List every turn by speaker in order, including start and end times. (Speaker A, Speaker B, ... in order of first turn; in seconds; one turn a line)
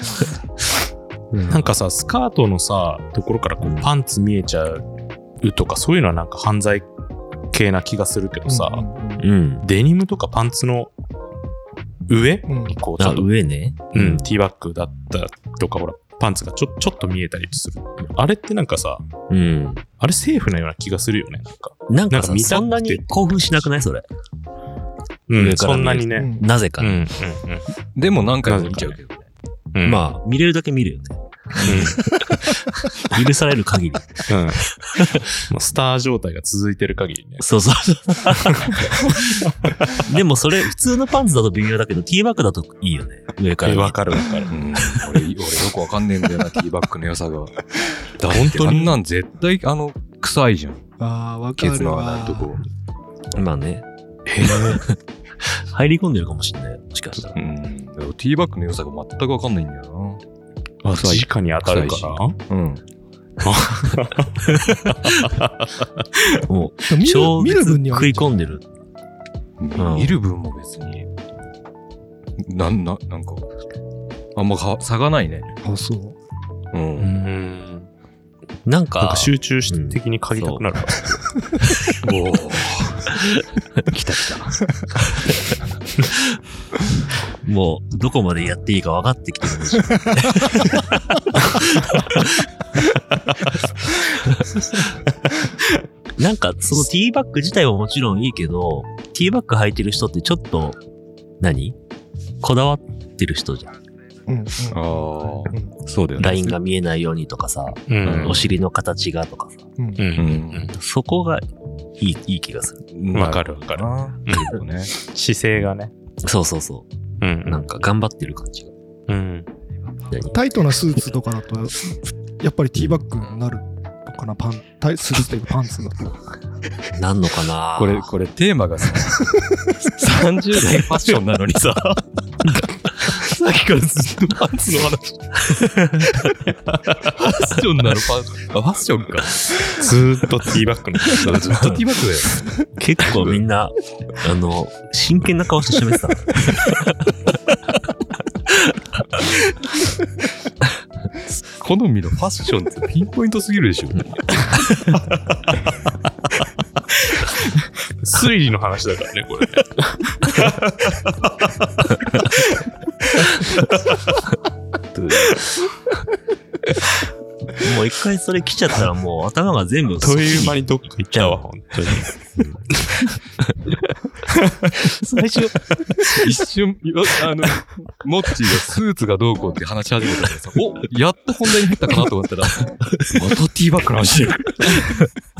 Speaker A: 1.3-1.7
Speaker B: 1.5-4.8
Speaker A: 3.6-3.9
Speaker B: 5.4-6.9
Speaker B: 7.5-8.8
Speaker C: 8.5-9.3
Speaker A: 9.2-9.6
Speaker B: 9.6-10.9
Speaker B: 12.1-13.3
Speaker C: 12.5-12.8
Speaker A: 13.0-14.3
Speaker B: 13.9-19.1
Speaker A: 19.3-19.9
Speaker B: 20.0-23.5
Speaker A: 21.9-24.1
Speaker B: 25.3-26.3
Speaker A: 25.4-27.1
Speaker C: 26.2-26.5
Speaker B: 26.8-27.6
Speaker D: 27.9-29.2
Speaker B: 28.4-29.0
Speaker B: 29.7-30.1
Speaker A: 29.8-35.3
Speaker D: 31.6-31.9
Speaker B: 31.6-32.0
Speaker B: 34.3-34.6
Speaker B: 35.4-37.4
Speaker A: 37.4-39.1
Speaker B: 38.6-39.3
Speaker A: 40.0-44.2
Speaker B: 43.6-44.6
Speaker D: 44.5-47.6
Speaker D: 48.2-50.8
Speaker B: 48.3-49.0
Speaker C: 51.0-52.6
Speaker D: 51.6-52.6
Speaker A: 53.3-53.9
Speaker D: 54.3-54.8
Speaker A: 54.4-57.4
Speaker D: 57.3-60.2
Speaker B: 60.8-62.4
Speaker D: 60.9-62.8
Speaker B: 63.4-66.4
Speaker A: 66.5-68.6
Speaker C: 66.9-68.4
Speaker D: 69.6-71.1
Speaker A: 69.8-70.1
Speaker D: 72.4-73.5
Speaker D: 74.4-75.5
Speaker C: 75.6-76.2
Speaker D: 76.7-77.1
Speaker B: 77.0-77.9
Speaker A: 78.6-80.6
Speaker B: 79.0-81.2
Speaker D: 82.0-83.2
Speaker D: 83.8-84.5
Speaker A: 87.4-92.2
Speaker A: 96.2-100.8
Speaker A: 101.4-101.8
Speaker A: 102.4-103.7
Speaker C: 104.3-104.8
Speaker D: 104.7-106.6
Speaker A: 106.2-109.6
Speaker B: 107.9-108.4
Speaker D: 108.0-108.5
Speaker B: 110.0-110.8
Speaker D: 110.2-110.7
Speaker A: 110.7-111.4
Speaker A: 112.0-112.8
Speaker D: 112.9-114.9
Speaker B: 113.1-115.9
Speaker A: 116.2-116.9
Speaker B: 117.2-117.7
Speaker A: 117.4-118.7
Speaker B: 119.1-119.5
Speaker A: 120.1-120.3
Speaker C: 120.3-126.1
Speaker A: 126.9-128.1
Speaker D: 127.8-131.8
Speaker B: 130.9-132.0
Speaker D: 133.0-135.4
Speaker B: 134.7-134.9
Speaker B: 136.2-137.0
Speaker D: 137.2-139.8
Speaker B: 139.7-141.6
Speaker D: 141.1-143.4
Speaker A: 142.7-146.7
Speaker D: 151.5-154.6
Speaker B: 157.1-162.4
Speaker B: 163.0-164.2
Speaker A: 167.6-172.6
Speaker B: 170.0-172.1
Speaker B: 174.3-175.4
Speaker D: 176.0-185.1